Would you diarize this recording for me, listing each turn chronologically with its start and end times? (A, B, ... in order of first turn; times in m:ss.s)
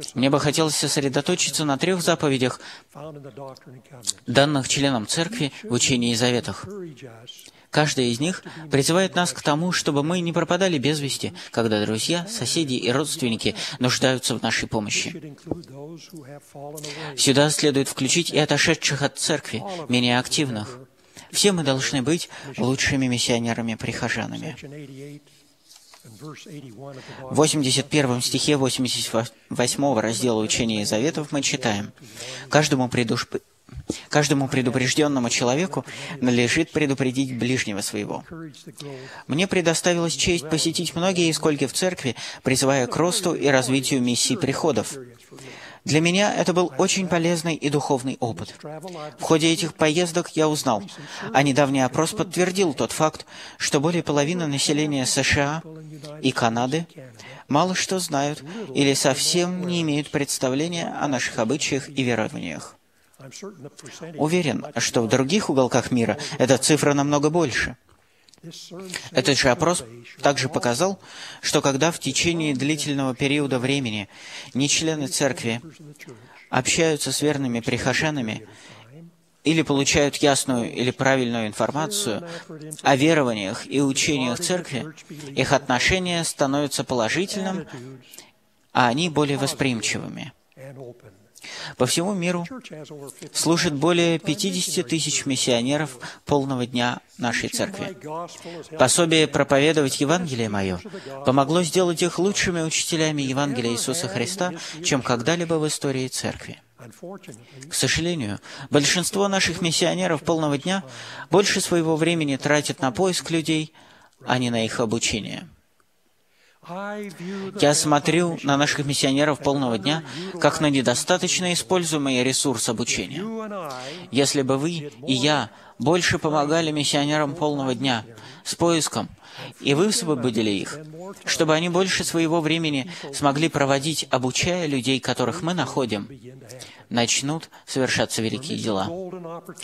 0:00.1-0:02.6 A
0:03.5-0:03.8 B
0:04.3-0:06.7 A
0:07.7-0:15.2 A
0:15.2-0:16.7 B
0:17.1-0:20.8 A
0:21.3-0:24.6 A
0:24.6-0:25.2 B
0:26.3-0:27.4 B
0:27.3-0:31.9 A
0:30.1-0:31.9 B
0:32.5-0:33.4 A
0:34.1-0:38.2 A
0:34.6-0:36.2 B
0:39.3-0:45.0 A
0:41.1-0:41.4 B
0:43.1-0:44.5 B
0:45.8-0:48.6 A
0:49.2-0:55.6 A
0:51.0-0:52.7 B
0:54.1-0:55.1 B
0:56.2-0:56.9 A
0:56.5-0:56.9 B
0:57.5-1:02.8 A
0:58.6-1:00.1 B
1:00.8-1:01.8 B
1:03.5-1:04.2 B
1:04.2-1:07.8 A
1:08.7-1:09.7 B
1:09.1-1:15.6 A
1:15.1-1:15.7 B
1:16.5-1:18.4 A
1:17.4-1:19.1 B
1:19.4-1:22.2 A
1:22.0-1:22.5 B
1:22.8-1:27.7 A
1:23.8-1:26.1 B
1:27.7-1:28.0 B
1:28.7-1:30.3 A
1:30.6-1:31.2 B
1:31.8-1:32.5 A
1:33.3-1:37.9 A
1:34.2-1:35.2 B
1:37.4-1:38.8 B
1:38.8-1:46.6 A
1:40.0-1:41.6 B
1:43.3-1:45.3 B
1:47.1-1:47.7 B
1:47.7-1:53.7 A
1:49.4-1:50.7 B
1:54.2-1:55.5 A
1:56.7-1:58.6 B
1:57.5-2:03.3 A
2:00.0-2:00.5 B
2:04.1-2:16.1 A
2:07.1-2:08.0 B
2:09.7-2:10.4 B
2:12.9-2:13.2 B
2:15.4-2:15.8 B
2:16.9-2:18.9 A
2:18.5-2:19.3 B